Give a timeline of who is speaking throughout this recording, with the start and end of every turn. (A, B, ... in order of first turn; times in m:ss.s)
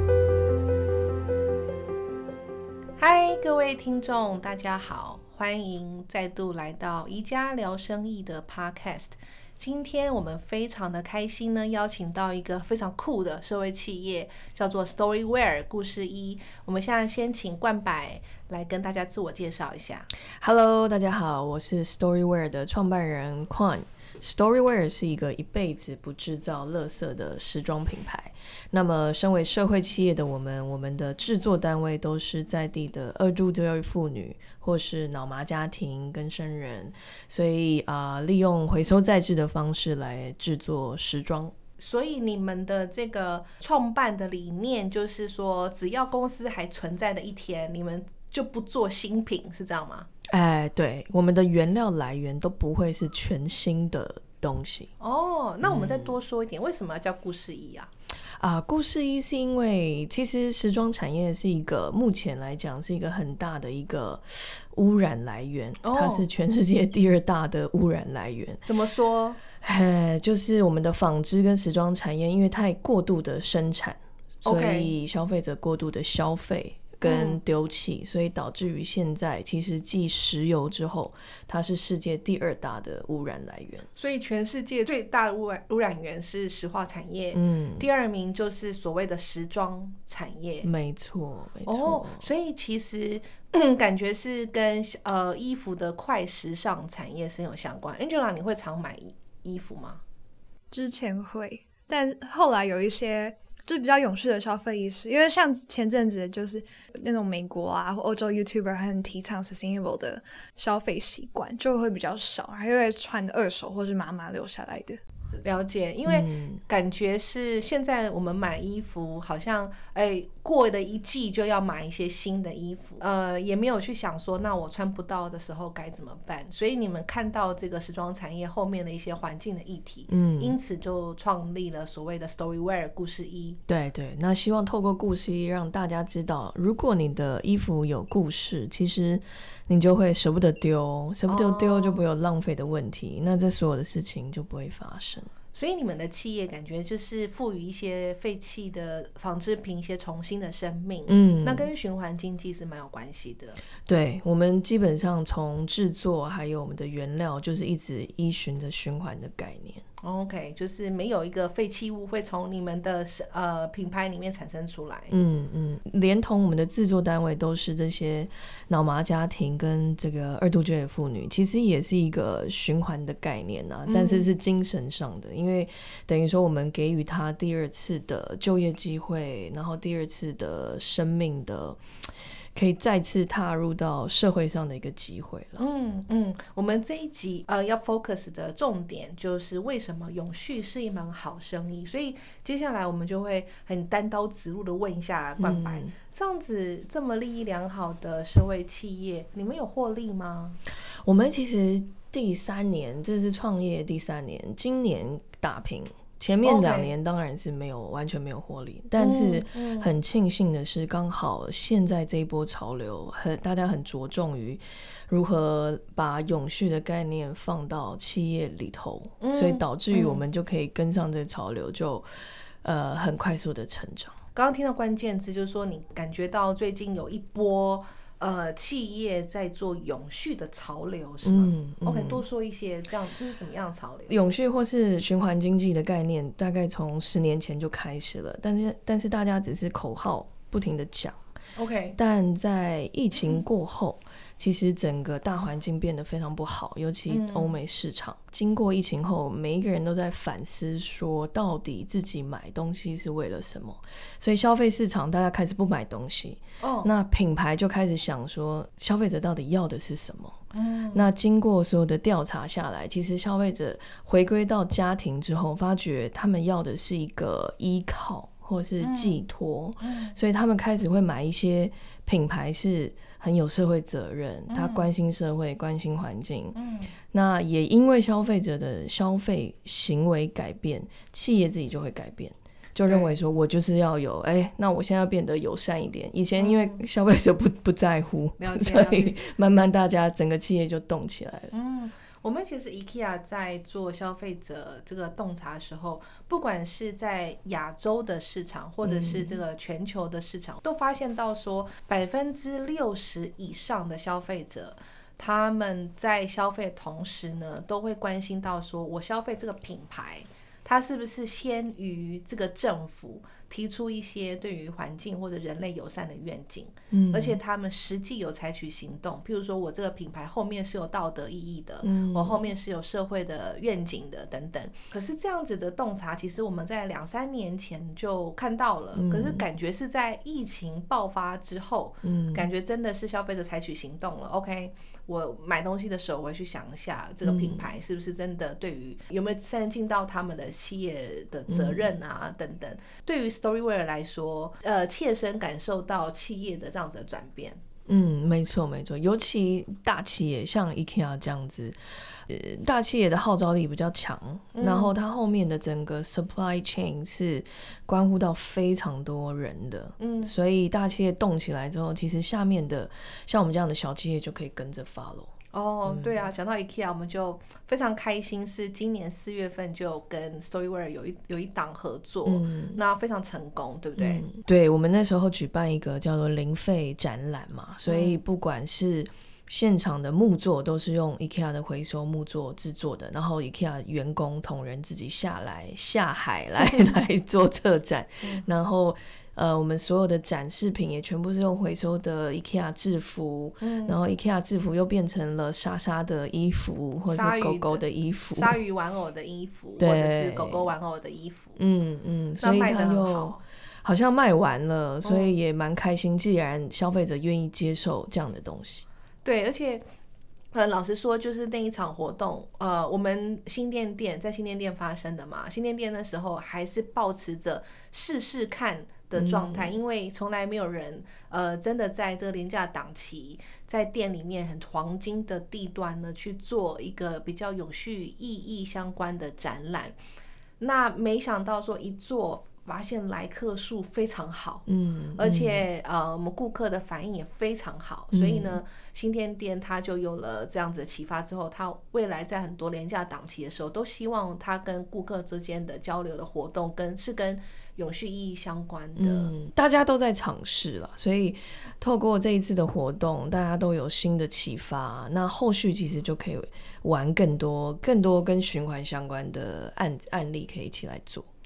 0:03.0-0:20.1 A
0:20.4-0:41.6 B
0:41.8-0:50.1 A
0:50.3-0:54.9 B
0:55.0-0:57.9 A
0:55.6-0:56.2 B
0:58.4-1:08.6 B
1:05.8-1:06.2 A
1:08.6-1:09.4 A
1:09.5-1:23.9 B
1:14.4-1:14.9 A
1:17.0-1:17.4 A
1:24.0-1:30.7 A
1:27.3-1:27.9 B
1:30.6-1:32.3 B
1:31.7-1:40.0 A
1:40.7-1:55.0 C
1:55.4-2:13.6 A
1:56.0-1:56.6 B
2:10.1-2:10.6 B
2:13.7-2:25.3 B
2:21.3-2:22.0 A
2:25.5-2:33.6 A
2:31.1-2:31.7 B
2:33.9-2:39.8 B
2:40.0-2:45.1 A
2:45.1-3:01.8 B
2:53.9-2:54.3 A
3:02.6-3:05.6 B
3:05.6-3:20.6 A
3:15.4-3:15.9 B
3:20.9-3:42.1 B
3:26.4-3:26.9 A
3:29.0-3:29.9 A
3:39.2-3:40.2 A
3:42.6-3:44.2 B
3:44.4-3:54.1 A
3:51.2-3:52.2 B
3:54.1-4:01.2 B
4:01.6-4:02.0 A
4:02.0-4:20.4 B
4:07.1-4:07.6 A
4:16.6-4:16.9 A
4:20.5-4:21.1 A
4:20.9-4:36.6 B
4:28.8-4:29.2 A
4:29.8-4:30.2 A
4:34.5-4:34.9 A
4:36.6-4:36.9 A
4:37.1-4:51.5 B
4:42.9-4:43.2 A
4:46.4-4:46.8 A
4:48.4-4:49.2 A
4:51.5-5:47.6 A
4:58.8-4:59.4 B
5:16.9-5:17.4 B
5:21.8-5:22.5 B
5:29.0-5:29.4 B
5:32.0-5:32.5 B
5:37.2-5:37.7 B
5:41.5-5:41.9 B
5:47.9-6:05.3 B
5:54.6-5:55.0 A
6:00.0-6:00.3 A
6:05.5-6:14.3 A
6:05.9-6:06.2 B
6:12.3-6:12.8 B
6:14.0-6:38.6 B
6:17.9-6:18.2 A
6:33.6-6:34.0 A
6:37.1-6:37.8 A
6:38.4-6:41.6 A
6:39.8-6:40.7 B
6:41.6-6:48.9 B
6:42.4-6:43.4 A
6:45.0-6:45.3 A
6:49.2-6:49.8 A
6:50.5-7:10.0 A
6:59.2-6:59.8 B
7:10.6-7:29.3 A
7:14.7-7:15.7 B
7:18.1-7:18.6 B
7:29.0-7:41.3 B